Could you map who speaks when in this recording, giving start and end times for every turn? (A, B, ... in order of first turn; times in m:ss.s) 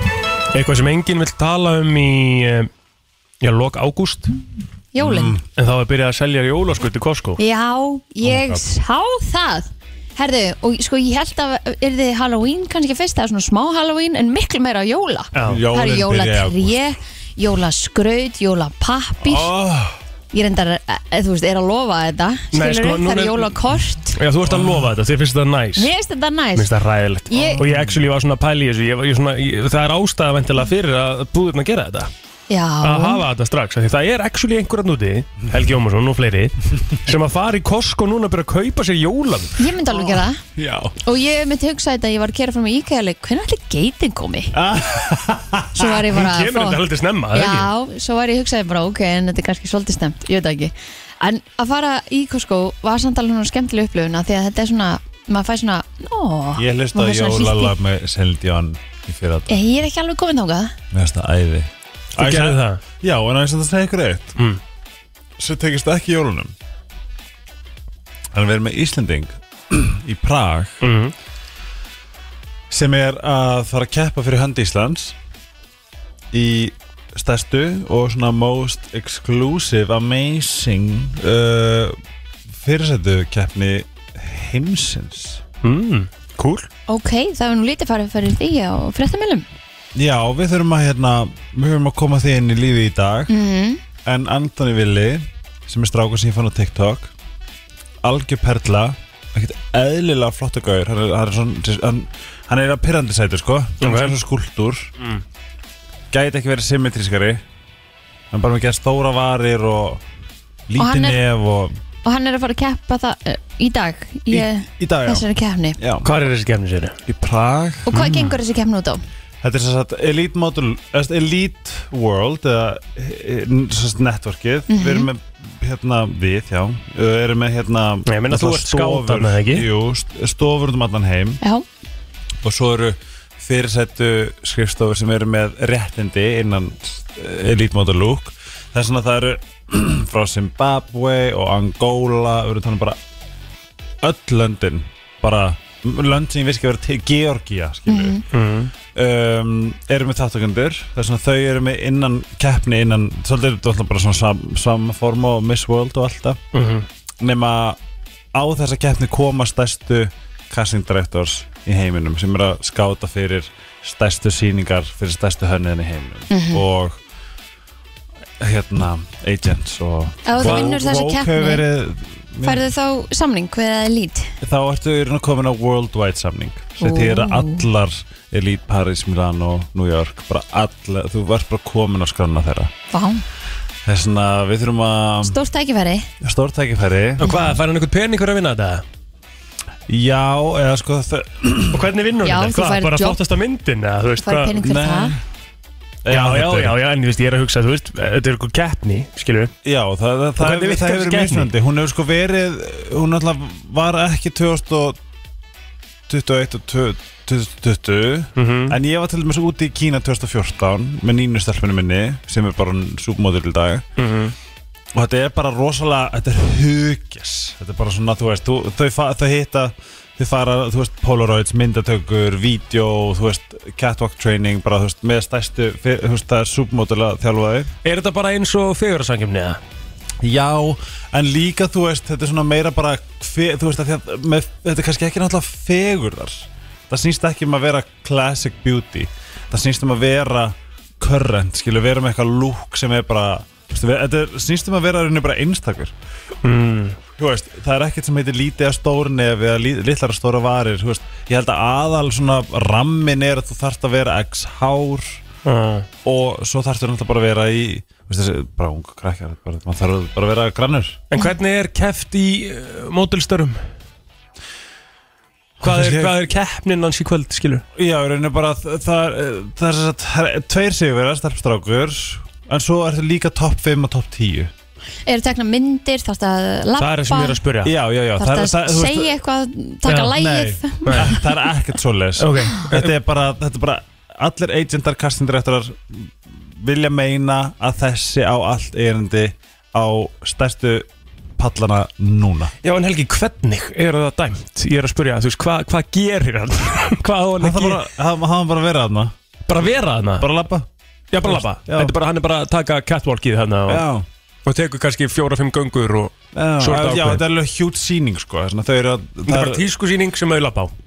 0:00.5-0:02.7 A
0:03.4-0:04.4 A
0:04.9-0:05.4 B
0:05.0-0:05.4 C
0:05.6-0:07.4 A
0:07.4-0:19.5 B
0:08.2-0:08.6 C
0:15.3-0:15.6 A
0:15.4-0:16.8 C
0:19.2-0:20.0 C
0:20.3-0:24.2 B
0:22.5-0:23.5 A
0:24.1-0:25.9 A
0:24.5-0:24.9 C
0:25.8-0:26.7 B
0:26.6-0:32.1 A
0:27.3-0:27.6 B
0:27.6-0:28.0 C
0:32.5-0:33.2 B
0:32.8-0:39.7 A
0:39.6-0:40.4 B
0:39.9-0:40.9 C
0:41.0-0:44.6 B
0:44.5-0:45.9 C
0:45.8-0:46.8 B
0:45.9-0:47.7 A
0:47.3-0:57.8 B
0:56.6-0:59.6 C
0:59.5-1:00.8 B
1:00.9-1:04.4 C
1:02.2-1:02.8 A
1:05.4-1:06.5 C
1:08.3-1:10.8 C
1:10.8-1:11.1 A
1:12.7-1:15.2 C
1:16.3-1:22.0 C
1:22.6-1:25.4 C
1:25.6-1:26.7 A
1:26.9-1:29.5 B
1:30.0-1:33.3 C
1:33.3-1:33.8 B
1:34.0-1:37.1 C
1:38.0-1:44.9 C
1:43.8-1:44.2 A
1:46.1-1:47.4 C
1:48.3-1:50.0 C
1:50.7-1:51.8 C
1:50.8-1:51.2 B
1:52.0-1:55.8 B
1:54.3-1:56.1 C
1:56.0-1:57.0 A
1:57.1-1:58.0 C
1:57.9-1:59.0 B
1:57.9-1:58.3 A
1:59.4-2:11.4 C
2:04.7-2:05.1 B
2:08.1-2:09.7 A
2:12.4-2:23.0 C
2:24.0-2:28.2 C
2:27.9-2:28.2 B
2:28.3-2:28.7 A
2:29.0-2:36.4 C
2:36.5-2:36.9 A
2:37.2-2:37.8 C
2:38.3-2:47.0 C
2:46.3-2:46.6 B
2:48.4-2:52.6 C
2:50.2-2:51.6 B
2:52.4-2:54.3 B
2:54.4-3:02.7 C
2:56.8-2:57.7 B
3:02.9-3:03.2 B
3:03.8-3:05.4 C
3:05.2-3:06.1 B
3:06.2-3:07.3 C
3:07.2-3:07.5 B
3:07.2-3:08.8 A
3:09.9-3:11.9 C
3:11.7-3:14.6 A
3:12.2-3:13.2 B
3:14.2-3:15.2 B
3:14.6-3:15.2 C
3:16.0-3:16.8 C
3:16.1-3:19.5 A
3:19.6-3:25.0 C
3:20.4-3:21.5 A
3:26.1-3:33.8 C
3:28.4-3:28.8 A
3:34.0-3:34.4 A
3:35.0-3:47.7 C
3:47.8-3:49.6 A
3:50.2-4:05.9 C
4:06.4-4:07.0 A
4:07.2-4:15.2 C
4:15.4-4:15.9 A
4:16.0-4:21.0 C
4:21.1-4:23.6 A
4:25.6-4:26.2 C
4:25.6-4:27.6 A
4:27.8-4:34.5 C
4:35.1-4:37.4 B
4:36.8-4:37.7 A
4:37.6-4:39.2 C
4:38.2-4:41.2 B
4:39.9-4:40.2 A
4:40.1-4:52.5 C
4:40.8-4:41.2 A
4:42.2-4:42.9 A
4:52.6-4:57.8 A
4:57.4-4:59.1 C
4:59.5-5:00.3 A
5:00.2-5:00.7 C
5:01.1-5:03.8 A
5:01.2-5:02.0 C
5:03.7-5:04.1 C
5:04.5-5:07.2 A
5:06.3-5:09.7 C
5:09.3-5:10.7 A